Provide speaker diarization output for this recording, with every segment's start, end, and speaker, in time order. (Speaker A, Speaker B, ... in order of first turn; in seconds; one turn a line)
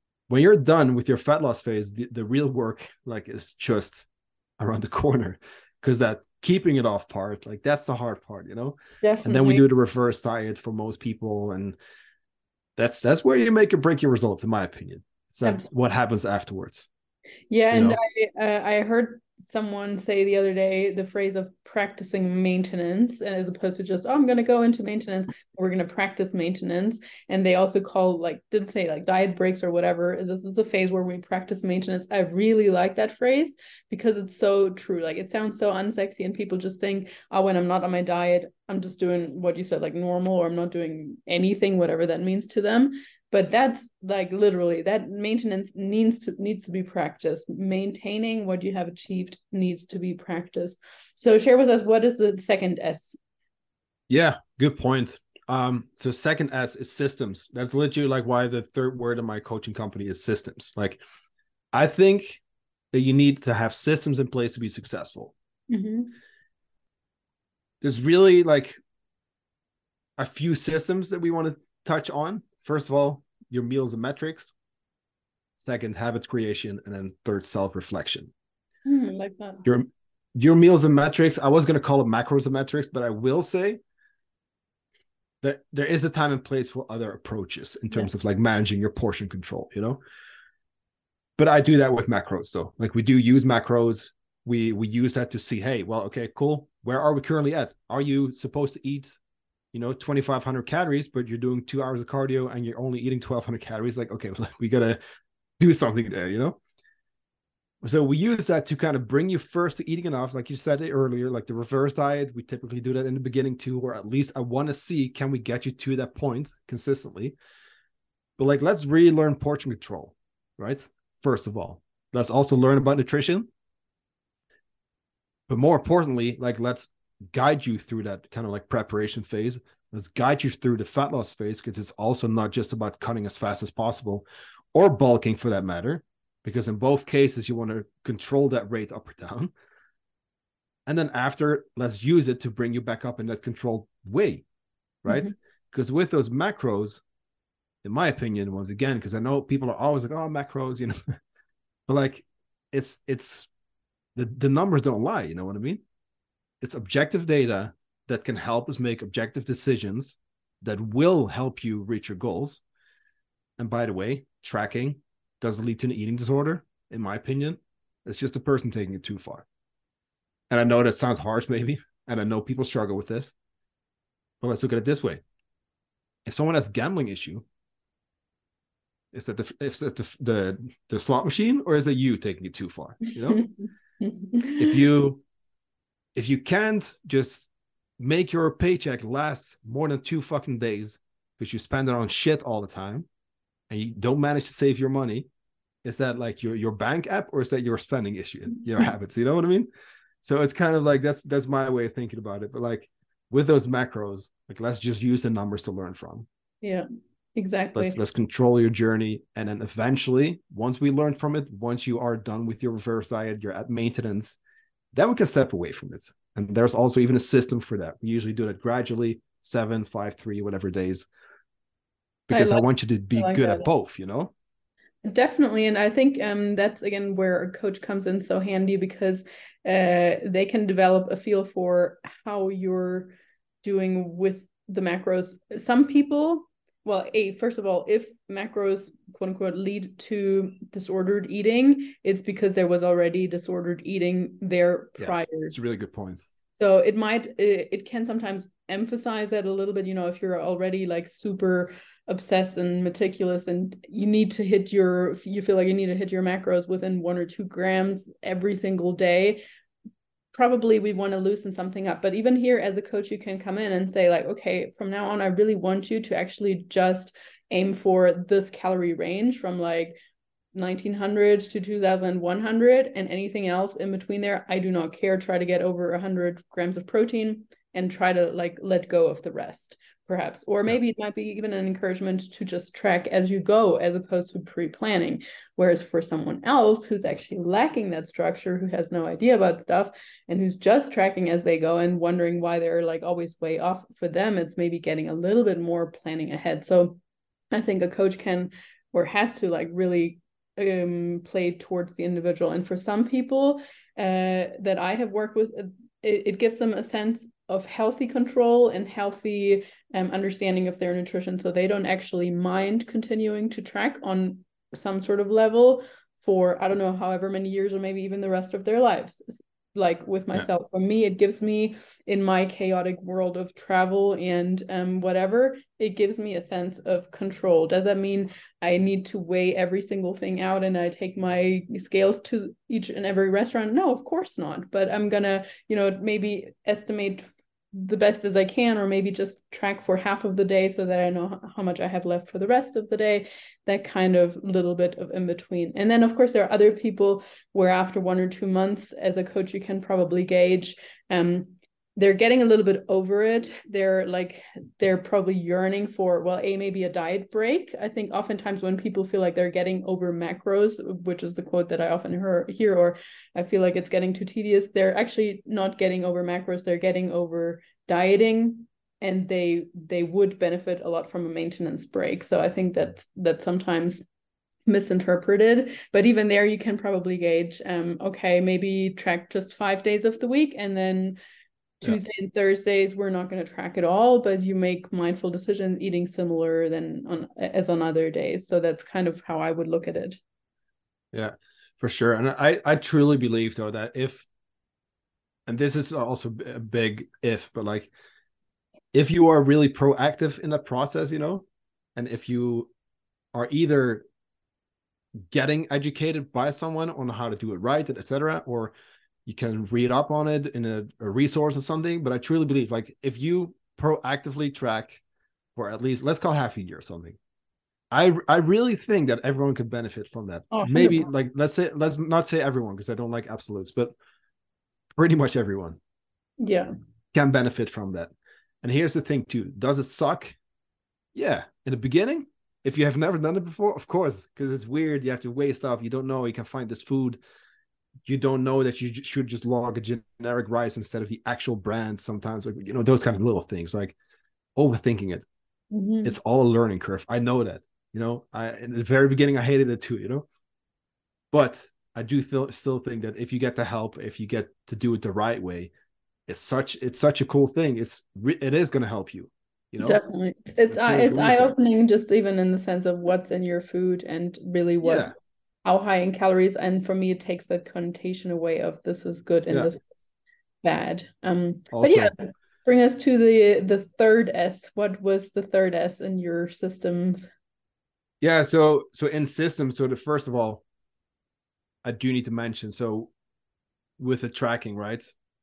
Speaker A: 0.3-4.1
Speaker A: 4.6-11.8
Speaker B: 9.0-9.6
Speaker A: 12.8-16.9
Speaker B: 17.5-53.2
Speaker A: 17.7-18.0
Speaker A: 54.1-61.0
Speaker A: 61.7-65.3
Speaker B: 65.7-66.1
Speaker A: 67.8-68.8
Speaker A: 70.2-74.5
Speaker A: 75.6-78.3
Speaker B: 78.8-79.6
Speaker A: 79.6-83.8
Speaker A: 85.4-90.0
Speaker A: 91.4-99.2
Speaker A: 99.7-105.0
Speaker A: 105.6-106.6
Speaker A: 107.8-117.3
Speaker A: 118.4-123.5
Speaker A: 125.5-139.5
Speaker A: 140.8-144.4
Speaker A: 145.0-147.0
Speaker B: 145.1-145.3
Speaker A: 147.8-151.1
Speaker A: 151.9-153.5
Speaker A: 154.2-155.8
Speaker A: 156.6-162.6
Speaker A: 163.6-169.4
Speaker A: 170.5-173.3
Speaker A: 174.4-175.2
Speaker A: 176.2-177.4
Speaker A: 179.1-183.4
Speaker B: 183.2-184.8
Speaker A: 184.6-185.2
Speaker A: 186.1-193.1
Speaker A: 193.7-195.3
Speaker A: 195.8-199.7
Speaker A: 200.2-206.2
Speaker B: 207.3-208.0
Speaker A: 207.7-214.4
Speaker A: 214.9-221.1
Speaker A: 222.3-224.3
Speaker B: 222.3-223.7
Speaker B: 225.0-245.5
Speaker A: 245.0-246.2
Speaker B: 246.6-259.4
Speaker B: 260.3-270.0
Speaker B: 270.5-297.0
Speaker B: 297.5-374.0
Speaker B: 374.7-381.2
Speaker B: 381.8-390.2
Speaker A: 391.1-394.2
Speaker A: 395.4-397.9
Speaker A: 398.9-401.4
Speaker A: 401.9-402.7
Speaker A: 403.3-404.1
Speaker A: 405.3-408.7
Speaker A: 409.2-415.0
Speaker A: 415.5-417.2
Speaker A: 417.9-423.9
Speaker B: 420.5-421.1
Speaker A: 424.9-425.8
Speaker B: 426.4-426.7
Speaker A: 427.1-428.1
Speaker A: 428.6-430.4
Speaker A: 431.1-437.2
Speaker A: 438.0-443.9
Speaker A: 444.6-445.2
Speaker B: 445.7-446.2
Speaker A: 446.0-450.2
Speaker A: 451.3-455.7
Speaker A: 456.3-460.0
Speaker B: 459.8-465.1
Speaker A: 460.7-461.5
Speaker A: 464.8-465.1
Speaker B: 465.6-470.1
Speaker B: 470.6-477.3
Speaker A: 471.7-472.1
Speaker A: 478.2-480.6
Speaker A: 481.8-483.1
Speaker A: 484.0-485.1